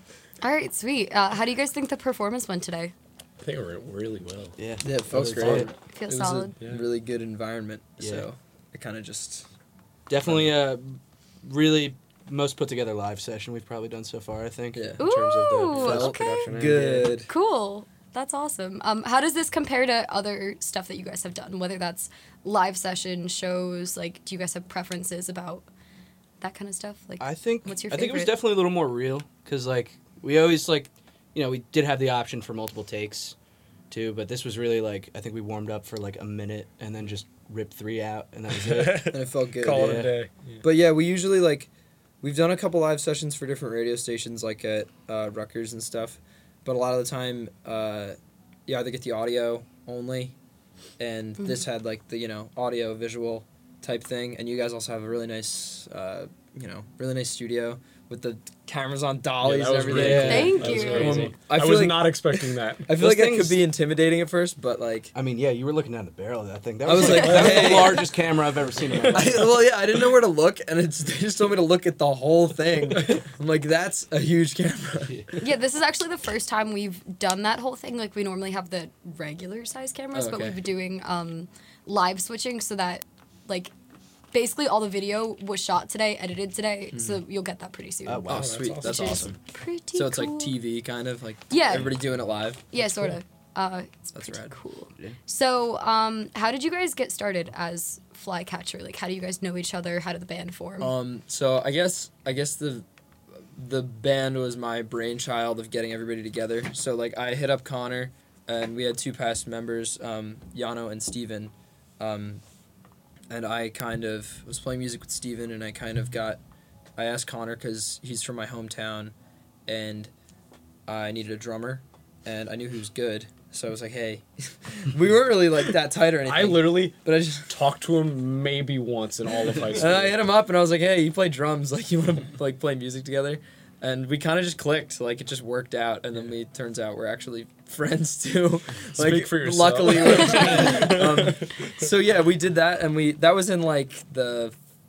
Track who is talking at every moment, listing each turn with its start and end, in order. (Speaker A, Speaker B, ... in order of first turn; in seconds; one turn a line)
Speaker A: 0.4-2.9
Speaker B: 3.4-4.6
Speaker C: 4.6-5.7
Speaker D: 4.8-9.5
Speaker B: 5.1-5.7
Speaker A: 5.9-6.5
Speaker B: 6.6-6.9
Speaker C: 8.0-8.2
Speaker C: 10.1-16.8
Speaker D: 10.2-10.5
Speaker D: 14.7-15.0
Speaker A: 15.0-16.5
Speaker B: 15.7-17.2
Speaker D: 15.8-17.3
Speaker A: 17.3-25.7
Speaker A: 26.4-28.4
Speaker C: 27.2-33.4
Speaker C: 33.9-39.1
Speaker B: 38.6-40.6
Speaker D: 39.0-40.1
Speaker C: 39.7-40.1
Speaker D: 40.6-41.7
Speaker D: 42.2-50.3
Speaker D: 51.0-65.1
Speaker B: 59.4-63.0
Speaker C: 59.8-61.3
Speaker A: 60.2-61.2
Speaker C: 62.9-63.7
Speaker C: 65.1-69.5
Speaker D: 66.8-68.1
Speaker B: 67.2-68.0
Speaker B: 68.8-69.4
Speaker D: 69.1-75.1
Speaker C: 75.1-75.4
Speaker A: 75.4-83.7
Speaker D: 80.1-80.6
Speaker A: 84.3-90.6
Speaker D: 86.9-87.2
Speaker C: 88.1-88.6
Speaker B: 88.3-89.3
Speaker D: 88.3-89.4
Speaker D: 89.9-93.2
Speaker A: 91.5-92.0
Speaker A: 92.7-100.9
Speaker D: 94.1-94.5
Speaker D: 100.8-102.9
Speaker D: 103.5-112.4
Speaker D: 113.3-116.4
Speaker D: 117.0-119.1
Speaker D: 119.7-120.1
Speaker D: 120.9-127.5
Speaker B: 126.2-130.3
Speaker D: 129.7-144.6
Speaker B: 138.9-141.7